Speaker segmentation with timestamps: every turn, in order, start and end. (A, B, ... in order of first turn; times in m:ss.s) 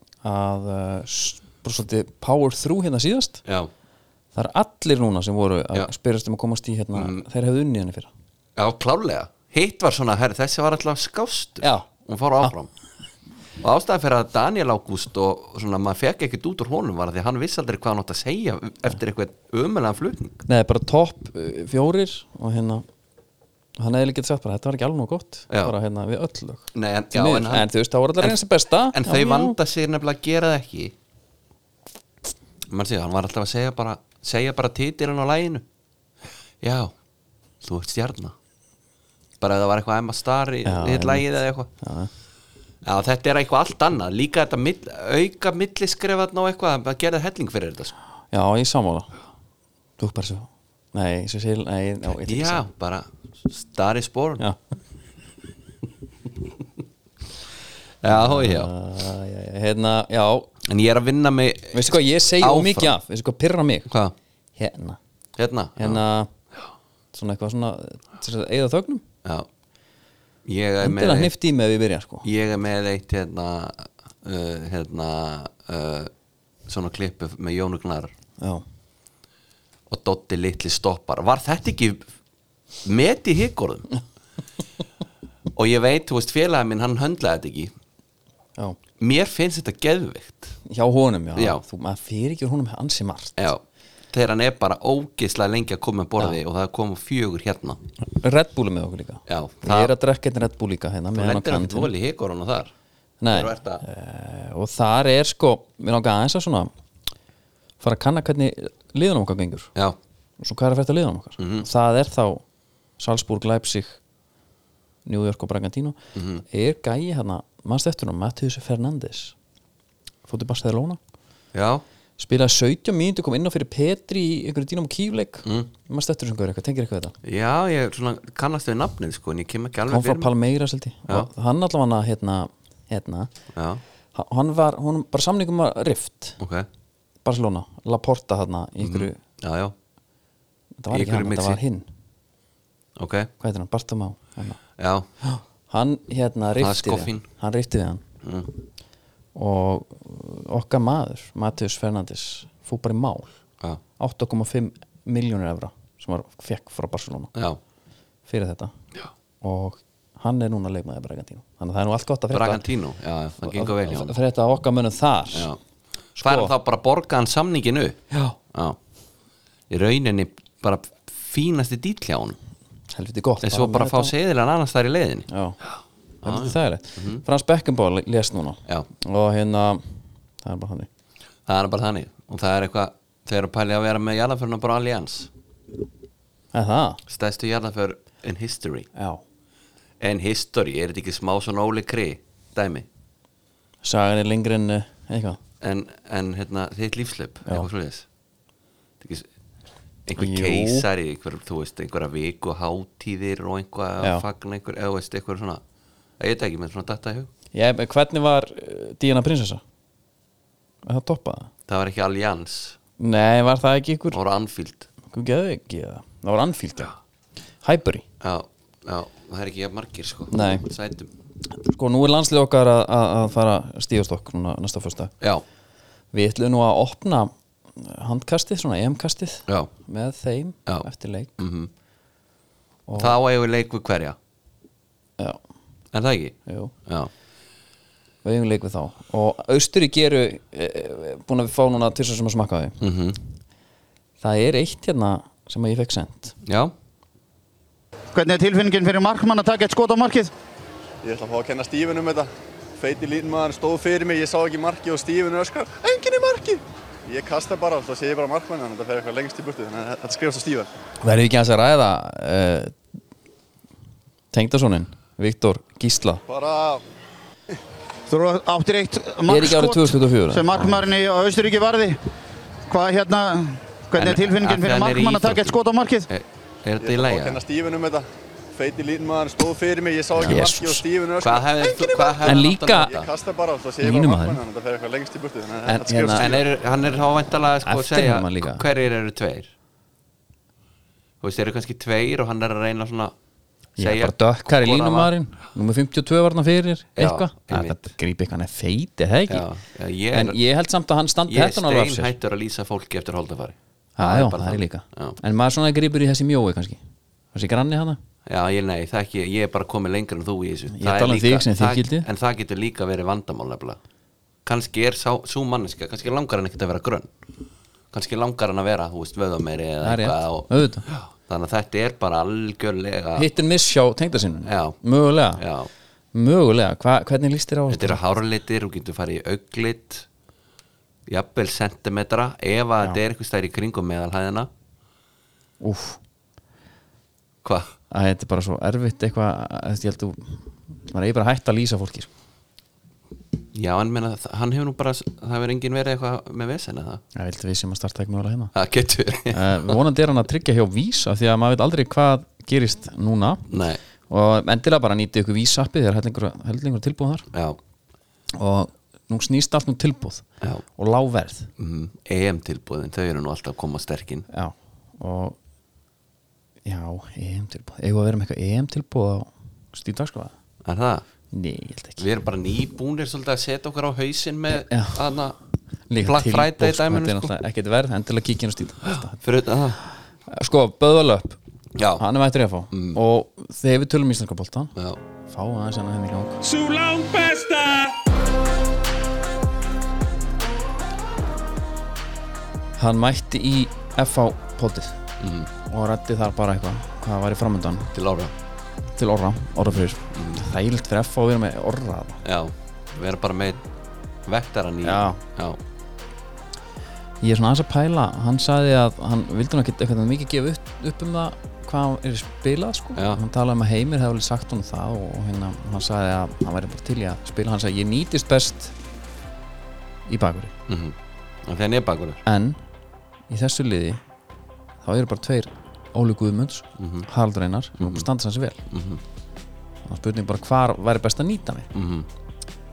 0:00.2-0:03.4 A
0:03.4-0:03.7 B
0:04.3-0:08.1 A
0:06.9-0:07.2 B
0:08.6-0:12.7 B
0:11.6-0:11.9 A
0:13.6-0:20.4 B
0:20.4-0:22.8 A
0:23.8-0:29.6 A
0:26.7-0:27.7 B
0:28.9-0:30.9 B
0:32.7-0:35.6 B
0:36.6-0:36.9 B
0:37.6-0:38.3 B
0:39.4-0:41.7 B
0:40.6-0:42.1 A
0:42.8-0:47.9 B
0:48.3-0:49.1 A
0:50.0-0:52.6 A
0:52.1-0:54.4 B
0:58.0-0:58.7 B
0:58.1-1:00.5 A
1:00.6-1:02.9 B
1:01.7-1:03.9 A
1:03.9-1:04.1 B
1:04.6-1:05.0 A
1:05.4-1:06.0 B
1:05.8-1:06.3 A
1:07.1-1:09.0 A
1:10.4-1:11.3 B
1:10.8-1:12.2 A
1:12.2-1:16.1 B
1:16.7-1:18.1 B
1:18.4-1:18.6 A
1:19.9-1:22.1 B
1:22.8-1:24.0 B
1:25.5-1:27.7 B
1:29.0-1:30.6 B
1:30.6-1:33.4 A
1:31.4-1:31.6 B
1:33.4-1:37.8 B
1:38.0-1:41.9 A
1:39.3-1:39.9 B
1:41.1-1:42.7 B
1:43.2-1:46.7 A
1:43.3-1:43.8 B
1:47.8-1:49.7 A
1:50.4-1:52.4 A
1:51.4-1:51.7 B
1:53.0-1:54.0 A
1:55.0-1:59.3 A
1:56.1-1:56.4 B
2:00.2-2:01.0 A
2:01.5-2:01.8 B
2:02.2-2:07.1 A
2:05.4-2:05.7 B
2:07.2-2:10.3 B
2:09.9-2:13.3 A
2:13.5-2:13.8 B
2:14.1-2:16.4 A
2:16.4-2:16.7 B
2:17.2-2:19.2 A
2:18.8-2:19.7 B
2:20.8-2:21.9 A
2:20.9-2:21.6 B
2:23.0-2:23.3 B
2:23.4-2:24.6 A
2:24.8-2:25.0 B
2:25.2-2:28.0 A
2:26.6-2:27.2 B
2:28.2-2:28.5 B
2:29.3-2:33.3 A
2:34.0-2:37.3 A
2:38.3-2:38.7 A
2:39.4-2:42.6 A
2:42.3-2:44.2 B
2:43.4-2:45.5 A
2:45.3-2:45.6 B
2:46.2-2:46.5 A
2:46.2-2:48.0 B
2:48.1-2:48.4 A
2:48.5-2:48.8 B
2:49.7-2:52.4 B
2:52.9-2:54.1 A
2:53.4-2:55.3 B
2:55.3-2:55.6 A
2:56.2-3:00.9 A
2:56.2-2:57.2 B
3:01.5-3:05.3 B
3:06.5-3:07.0 A
3:07.1-3:08.9 B
3:08.9-3:09.2 A
3:10.0-3:12.9 B
3:13.8-3:15.4 A
3:15.6-3:18.0 B
3:19.0-3:19.3 B
3:20.0-3:25.6 B
3:20.2-3:20.9 A
3:26.2-3:27.3 B
3:27.5-3:29.6 A
3:30.8-3:31.5 A
3:31.7-3:32.8 B
3:33.0-3:34.2 A
3:34.1-3:34.9 B
3:35.1-3:36.9 A
3:37.6-3:38.0 A
3:38.2-3:41.1 B
3:40.3-3:40.7 A
3:41.5-3:45.1 A
3:46.1-3:51.4 A
3:51.4-3:51.7 B
3:52.9-3:53.2 A
3:53.0-3:54.2 B
3:55.9-3:57.1 B
3:56.5-3:56.7 A
3:58.2-4:02.8 A
4:02.8-4:03.2 B
4:04.2-4:06.3 A
4:06.4-4:06.7 B
4:08.1-4:10.3 C
4:11.0-4:20.7 D
4:21.0-4:22.8 A
4:24.3-4:26.2 A
4:26.3-4:26.8 D
4:28.1-4:32.0 C
4:29.2-4:30.8 A
4:32.7-4:36.1 C
4:34.0-4:35.6 B
4:36.1-4:37.4 B
4:36.8-4:46.4 D
4:40.1-4:40.4 B
4:40.2-4:40.8 A
4:41.2-4:43.1 B
4:42.2-4:42.9 A
4:43.8-4:44.4 A
4:45.6-4:46.3 A
4:46.1-4:49.5 B
4:47.6-4:48.7 A
4:51.2-4:53.1 B
4:53.8-4:59.4 A
4:53.8-4:55.1 B
4:57.0-4:57.9 B
4:59.3-5:00.4 B
5:00.1-5:02.1 A
5:01.3-5:05.2 B
5:04.0-5:06.8 A
5:07.3-5:08.0 A
5:08.3-5:13.8 B
5:10.7-5:12.1 A
5:14.4-5:17.1 B
5:17.9-5:23.3 B
5:19.8-5:20.8 A
5:23.2-5:25.4 A
5:24.4-5:24.8 B
5:25.4-5:25.7 B
5:26.1-5:28.0 A
5:27.7-5:30.1 B
5:31.1-5:34.5 B
5:35.6-5:36.0 A
5:37.4-5:37.7 B
5:37.9-5:42.1 A
5:43.5-5:47.0 B
5:47.1-5:48.5 A
5:48.5-5:49.8 B
5:49.3-5:53.5 A
5:53.5-5:53.8 B
5:54.1-5:57.2 A
5:57.3-5:57.6 B
5:58.3-6:00.2 A
6:00.8-6:01.5 A
6:01.6-6:04.2 B
6:04.3-6:05.4 A
6:06.6-6:10.3 A
6:10.6-6:11.0 B
6:11.3-6:12.0 A
6:12.0-6:15.4 B
6:14.5-6:15.1 A
6:15.9-6:19.2 A
6:16.0-6:17.3 B
6:18.8-6:19.8 B
6:20.3-6:21.4 A
6:21.8-6:22.0 B
6:22.0-6:24.7 A
6:22.7-6:23.0 B
6:24.8-6:25.0 B
6:25.2-6:26.5 A
6:26.6-6:27.7 B
6:32.8-6:35.0 A
6:35.2-6:35.5 B
6:35.7-6:37.9 A
6:37.9-6:38.3 B
6:38.9-6:42.2 A
6:40.1-6:40.4 B
6:42.2-6:43.6 B
6:44.3-6:45.6 B
6:44.8-6:45.2 A
6:47.2-6:58.7 A
6:53.0-6:53.2 B
7:00.1-7:00.5 A
7:00.7-7:02.2 B
7:02.2-7:02.6 A
7:03.3-7:04.0 A
7:04.8-7:08.6 A
7:06.8-7:07.1 B
7:07.8-7:08.0 B
7:08.7-7:09.0 B
7:09.8-7:11.7 A
7:11.7-7:12.1 B